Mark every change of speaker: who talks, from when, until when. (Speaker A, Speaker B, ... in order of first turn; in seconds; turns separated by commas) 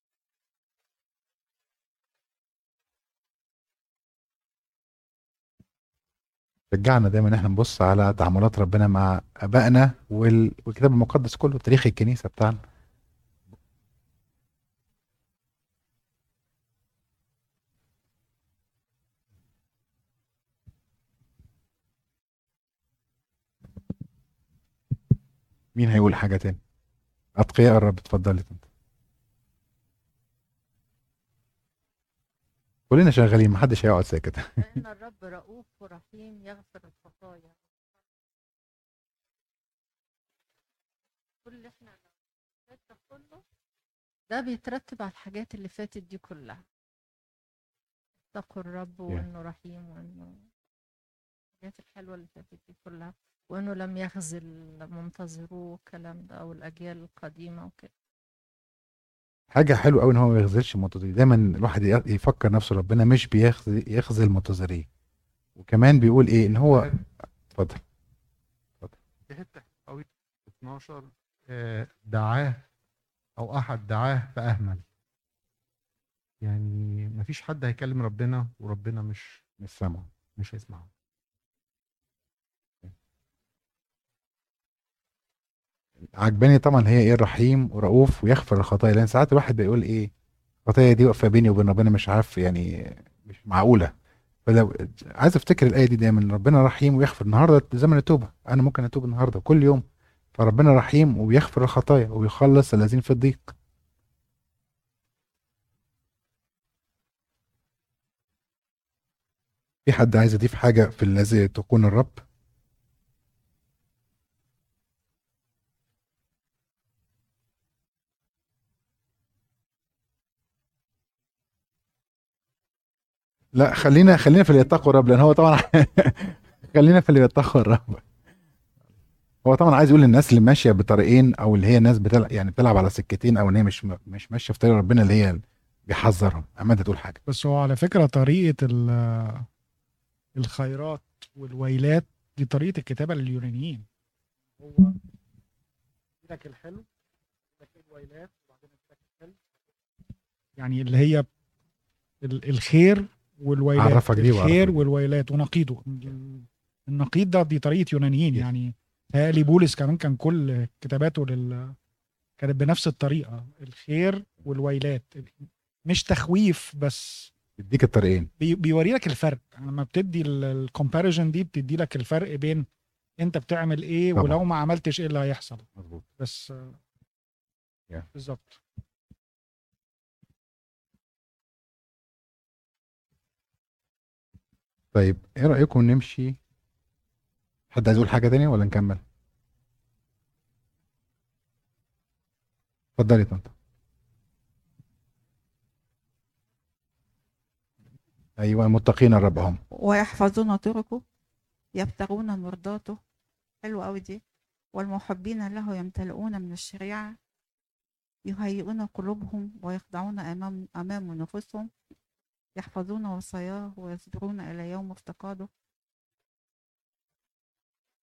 Speaker A: 6.7-12.6, Speaker A: 25.7-26.6, Speaker A: 27.4-28.6, Speaker A: 32.9-34.6, Speaker B: 34.6-37.7, Speaker B: 41.4-42.1, Speaker B: 42.6-43.4, Speaker B: 44.3-46.6, Speaker B: 48.3-50.4, Speaker B: 51.6-57.9, Speaker A: 59.5-64.8, Speaker A: 65.6-67.0, Speaker C: 66.6-66.9, Speaker A: 67.5-67.8, Speaker C: 69.3-72.6, Speaker C: 73.4-74.8, Speaker C: 76.4-79.4, Speaker A: 79.6-80.1, Speaker C: 80.3-80.9, Speaker A: 86.0-90.1, Speaker A: 90.7-93.9, Speaker A: 94.5-99.8, Speaker A: 100.3-103.5, Speaker A: 109.8-112.2, Speaker A: 123.5-128.0, Speaker A: 129.4-137.2, Speaker D: 137.3-139.5, Speaker D: 140.3-143.8, Speaker D: 144.6-144.9, Speaker D: 146.2-146.9, Speaker D: 147.6-149.4, Speaker D: 150.6-151.2, Speaker D: 152.2-161.7, Speaker A: 153.7-154.8, Speaker D: 162.4-167.3, Speaker A: 167.6-168.3, Speaker D: 168.4-172.7, Speaker D: 173.2-175.7, Speaker A: 175.8-176.0, Speaker D: 176.2-176.8, Speaker D: 178.1-178.6, Speaker A: 184.9-186.4, Speaker A: 187.7-189.0, Speaker A: 193.0-193.5, Speaker A: 198.4-199.6, Speaker E: 199.7-201.0, Speaker E: 201.7-203.0, Speaker E: 203.6-204.2, Speaker E: 204.7-207.2, Speaker E: 208.2-211.7, Speaker E: 212.6-215.5